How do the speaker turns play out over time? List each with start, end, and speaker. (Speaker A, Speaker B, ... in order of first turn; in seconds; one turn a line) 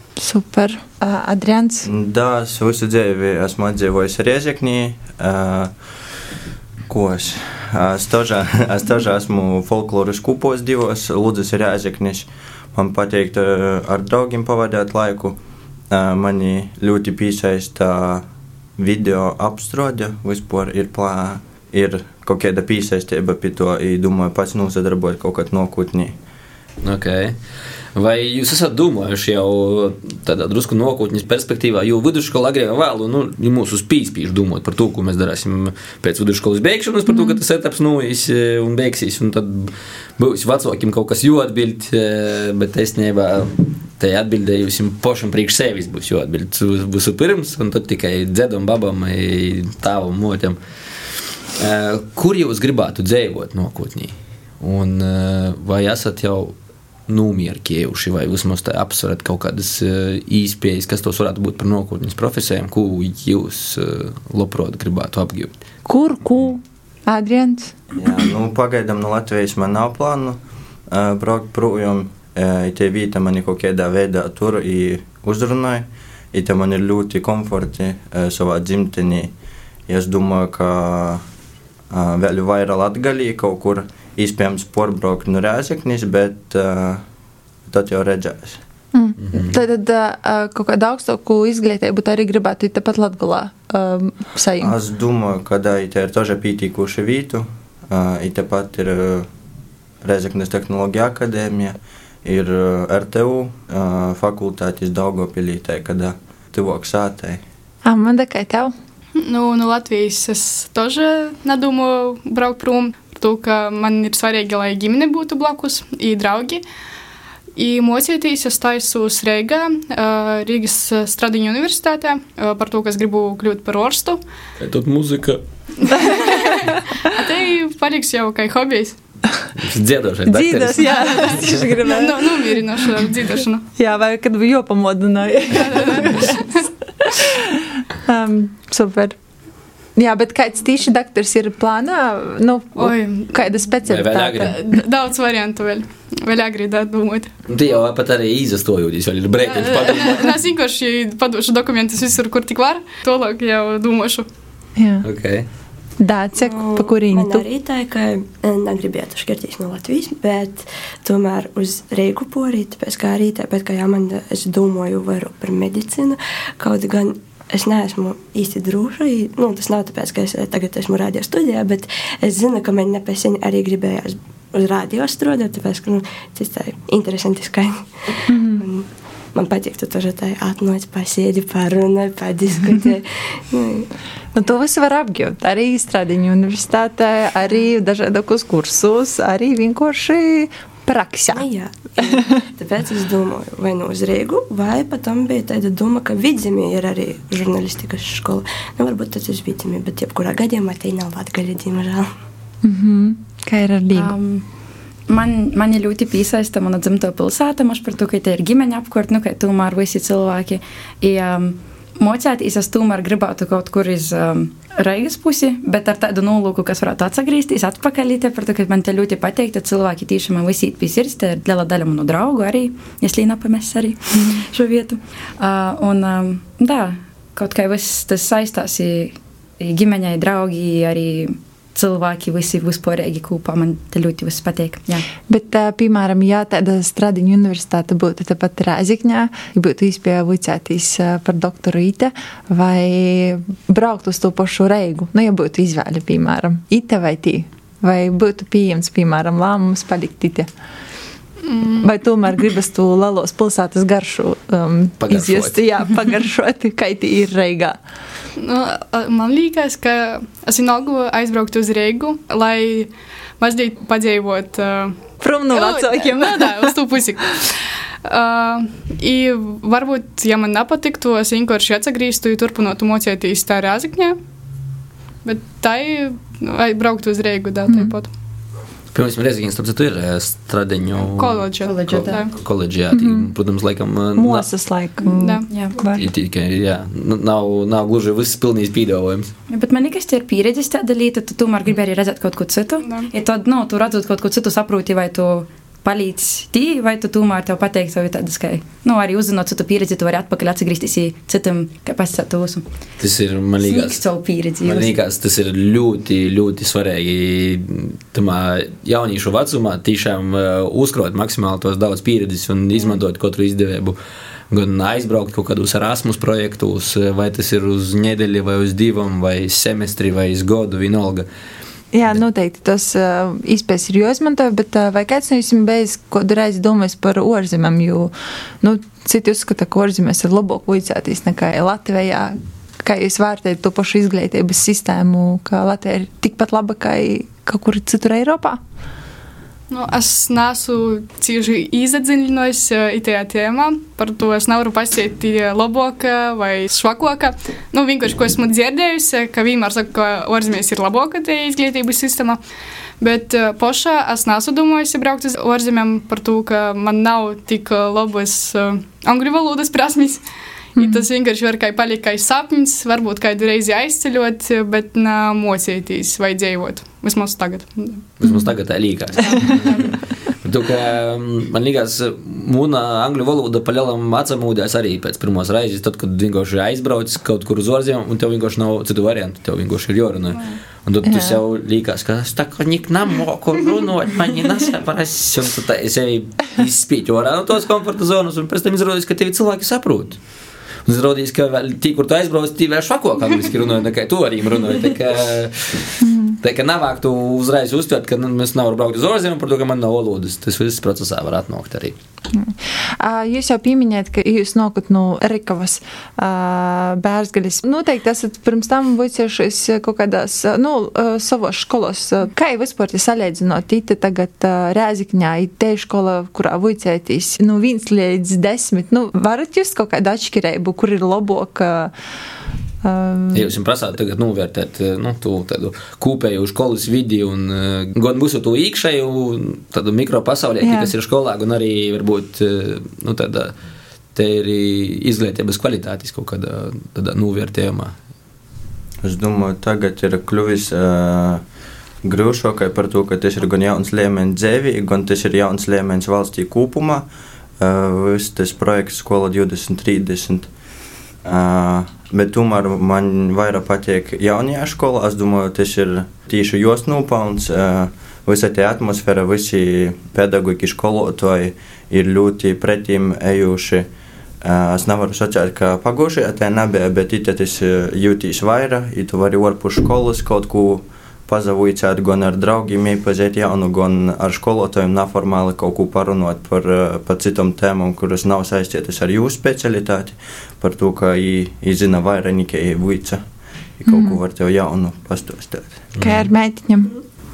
Speaker A: 0.2-1.9
Speaker B: 1.9-5.7
Speaker B: 6.9-15.4
Speaker B: 15.9-18.2
Speaker B: 18.8-26.2
Speaker C: 26.8-27.4
Speaker C: 27.9-56.5
Speaker A: 37.1-37.4
Speaker C: 57.1-65.5
Speaker A: 65.9-67.8
Speaker B: 68.0-79.3
Speaker B: 79.9-81.2
Speaker B: 81.9-87.0
Speaker B: 87.7-88.6
Speaker A: 88.9-94.8
Speaker C: 89.2-89.6
Speaker B: 94.6-99.3
Speaker B: 100.0-107.4
Speaker A: 107.8-108.7
Speaker D: 109.2-116.6
Speaker D: 117.5-124.2
Speaker C: 124.6-125.9
Speaker D: 125.8-129.0
Speaker C: 129.6-131.6
Speaker A: 130.3-132.8
Speaker D: 131.8-133.7
Speaker A: 133.8-139.2
Speaker D: 135.6-136.6
Speaker A: 139.9-144.8
Speaker D: 142.8-143.5
Speaker C: 143.9-144.6
Speaker D: 144.4-147.3
Speaker C: 147.5-150.4
Speaker D: 149.5-154.3
Speaker A: 154.8-155.1
Speaker C: 155.0-155.5
Speaker A: 156.0-157.5
Speaker E: 156.4-183.9
Speaker A: 178.3-178.7
Speaker A: 184.3-191.5
Speaker E: 191.3-202.1
Speaker A: 202.6-204.1
Speaker F: 203.9-204.4
Speaker F: 205.1-235.1
Speaker A: 224.2-224.4
Speaker A: 235.3-250.5
Speaker D: 251.4-251.9
Speaker A: 251.8-257.8
Speaker C: 255.0-255.6
Speaker D: 258.4-265.0
Speaker A: 265.2-266.8
Speaker D: 265.5-274.2
Speaker D: 275.2-278.1
Speaker A: 277.7-277.9
Speaker C: 278.9-284.5
Speaker D: 281.1-282.3
Speaker F: 281.6-282.2
Speaker A: 282.9-283.3
Speaker A: 284.2-286.1
Speaker D: 285.1-285.9
Speaker F: 285.5-285.7
Speaker C: 286.0-289.3
Speaker F: 289.5-302.6
Speaker D: 292.8-293.1
Speaker C: 303.0-304.0
Speaker F: 303.6-305.0
Speaker C: 304.6-314.0
Speaker C: 314.5-321.3
Speaker A: 321.9-338.6
Speaker D: 339.7-352.4
Speaker D: 353.0-360.2
Speaker D: 360.8-368.1
Speaker A: 360.8-361.1
Speaker C: 368.2-390.2
Speaker A: 368.2-368.5
Speaker D: 369.2-370.0
Speaker A: 381.0-381.4
Speaker C: 390.9-402.0
Speaker A: 396.0-396.4
Speaker A: 402.3-421.9
Speaker A: 422.8-423.5
Speaker C: 423.3-433.5
Speaker A: 430.6-430.9
Speaker C: 434.1-437.9
Speaker B: 439.0-441.4
Speaker B: 442.0-447.1
Speaker B: 447.6-450.5
Speaker B: 451.2-463.9
Speaker B: 464.4-483.2
Speaker B: 483.8-485.9
Speaker A: 483.9-484.2
Speaker C: 486.0-486.3
Speaker A: 486.0-486.9